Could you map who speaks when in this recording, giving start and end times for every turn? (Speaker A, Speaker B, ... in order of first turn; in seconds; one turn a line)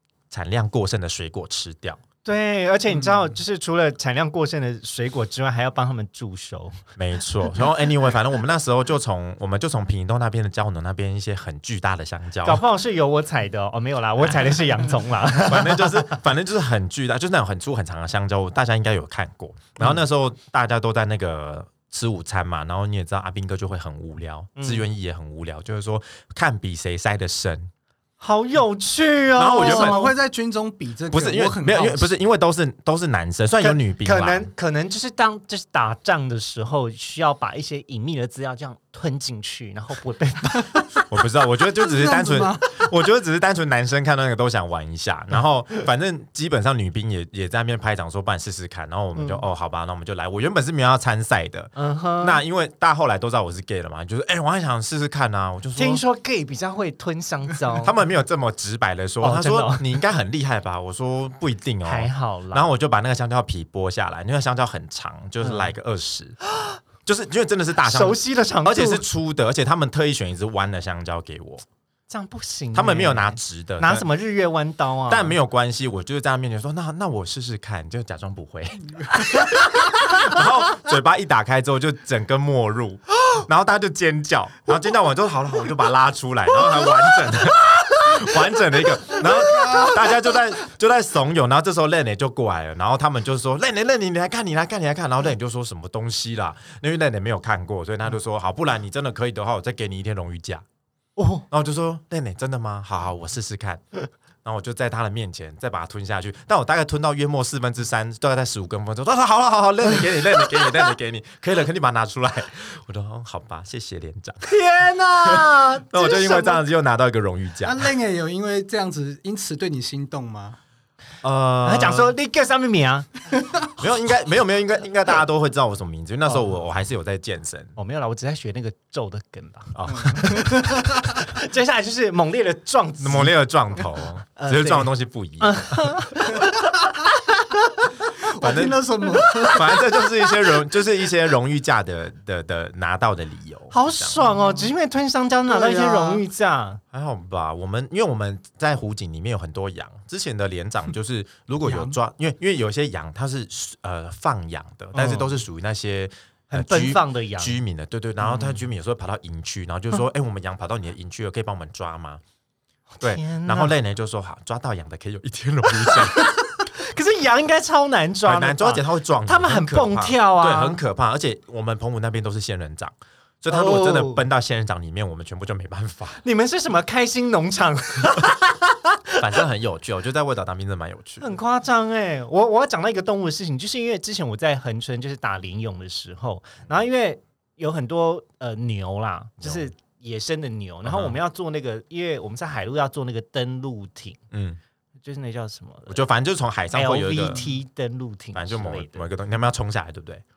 Speaker A: 0.3-2.0
Speaker B: 2.2-6.8
Speaker A: 7.0-12.6
Speaker B: 12.4-16.2
Speaker A: 14.2-14.7
Speaker A: 15.4-27.7
Speaker B: 24.6-24.9
Speaker B: 28.2-30.1
Speaker A: 29.3-30.1
Speaker C: 29.6-32.1
Speaker A: 31.1-34.5
Speaker B: 33.6-41.0
Speaker A: 41.1-56.0
Speaker C: 41.8-42.9
Speaker B: 49.1-49.4
Speaker B: 51.8-52.4
Speaker B: 55.8-57.9
Speaker A: 57.8-66.4
Speaker B: 59.2-60.0
Speaker B: 61.8-62.7
Speaker B: 65.4-65.7
Speaker A: 67.0-71.6
Speaker B: 67.8-69.0
Speaker B: 72.1-75.3
Speaker A: 72.7-74.1
Speaker A: 75.1-100.6
Speaker B: 101.2-101.4
Speaker A: 101.5-103.8
Speaker A: 104.4-114.5
Speaker B: 114.4-116.6
Speaker A: 115.2-117.9
Speaker C: 117.6-120.6
Speaker A: 121.2-122.1
Speaker B: 121.6-123.1
Speaker A: 123.8-127.8
Speaker B: 127.8-133.4
Speaker A: 129.7-130.6
Speaker C: 129.9-131.1
Speaker A: 133.0-136.2
Speaker B: 134.3-138.1
Speaker C: 138.2-140.1
Speaker A: 138.3-138.8
Speaker B: 139.2-139.5
Speaker A: 139.4-144.3
Speaker B: 143.7-146.8
Speaker C: 144.4-144.7
Speaker C: 145.5-146.2
Speaker A: 146.9-162.2
Speaker C: 151.6-152.0
Speaker B: 154.9-155.4
Speaker B: 156.5-157.6
Speaker B: 158.2-158.6
Speaker B: 162.9-163.7
Speaker A: 163.0-166.3
Speaker B: 165.9-170.8
Speaker A: 168.2-176.2
Speaker B: 173.5-174.2
Speaker B: 176.2-179.2
Speaker A: 179.2-181.3
Speaker B: 181.2-194.2
Speaker A: 189.4-189.7
Speaker A: 190.8-191.2
Speaker A: 194.3-194.6
Speaker B: 195.0-196.0
Speaker A: 195.9-197.4
Speaker B: 196.7-199.1
Speaker A: 198.3-200.2